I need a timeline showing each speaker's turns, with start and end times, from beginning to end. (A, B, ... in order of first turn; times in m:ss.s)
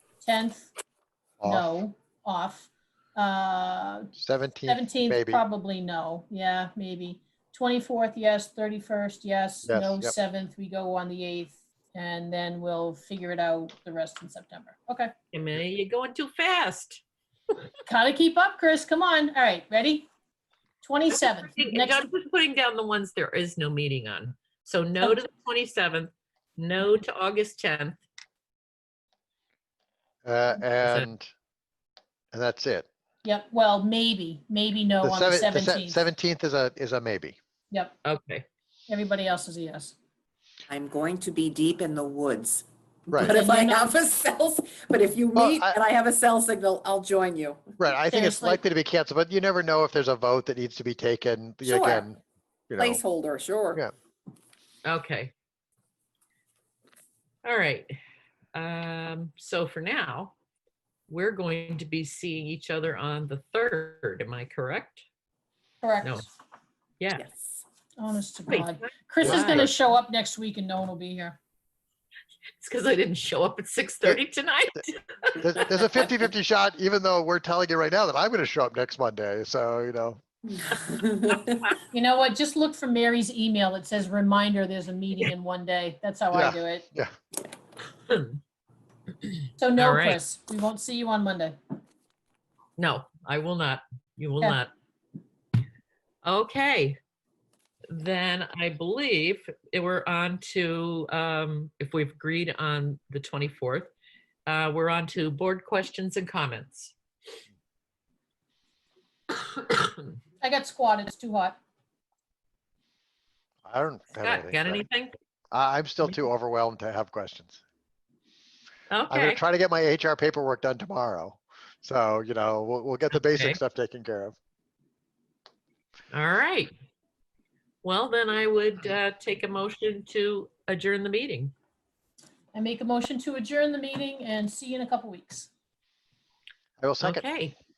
0:00.2-0:00.7 A
0:01.4-0:01.7 B
0:01.4-0:04.1 A
0:04.2-0:05.4 B
0:04.7-0:15.1 A
0:09.7-0:10.1 B
0:15.3-0:17.0 C
0:17.9-0:20.1 A
0:20.8-0:22.1 A
0:21.6-0:28.0 C
0:30.2-0:31.3 B
0:30.8-0:31.1 C
0:32.3-0:32.9 B
0:33.2-0:36.0 A
0:35.0-0:37.4 B
0:38.0-0:38.5 C
0:38.9-0:40.0 A
0:40.7-0:47.7 D
0:43.2-0:43.9 A
0:45.4-0:45.8 B
0:47.8-0:52.2 B
0:48.1-0:48.6 A
0:51.6-0:52.1 D
0:52.7-0:53.0 B
0:52.8-0:53.8 D
0:54.8-0:55.3 C
0:57.4-0:57.9 C
0:58.5-1:00.3 C
1:01.1-1:05.0 C
1:05.8-1:06.3 A
1:07.1-1:07.6 D
1:08.0-1:11.4 A
1:08.5-1:09.7 C
1:09.2-1:09.7 B
1:12.6-1:16.1 C
1:15.4-1:20.2 B
1:20.7-1:21.6 D
1:21.9-1:26.8 A
1:26.3-1:27.1 B
1:28.1-1:28.4 C
1:29.2-1:30.2 C
1:29.6-1:31.6 A
1:32.8-1:34.7 C
1:36.2-1:37.0 C
1:37.9-1:43.9 C
1:44.5-1:47.0 C
1:49.4-1:50.0 C
1:50.4-1:51.6 A
1:53.7-1:54.8 B
1:54.2-1:55.2 C
1:55.5-1:57.6 B
1:58.9-1:59.4 C
1:59.1-2:04.4 B
2:03.1-2:03.6 C
2:06.1-2:06.7 C
2:07.8-2:11.5 C
2:12.5-2:15.5 A
2:16.8-2:17.3 B
2:17.0-2:17.6 C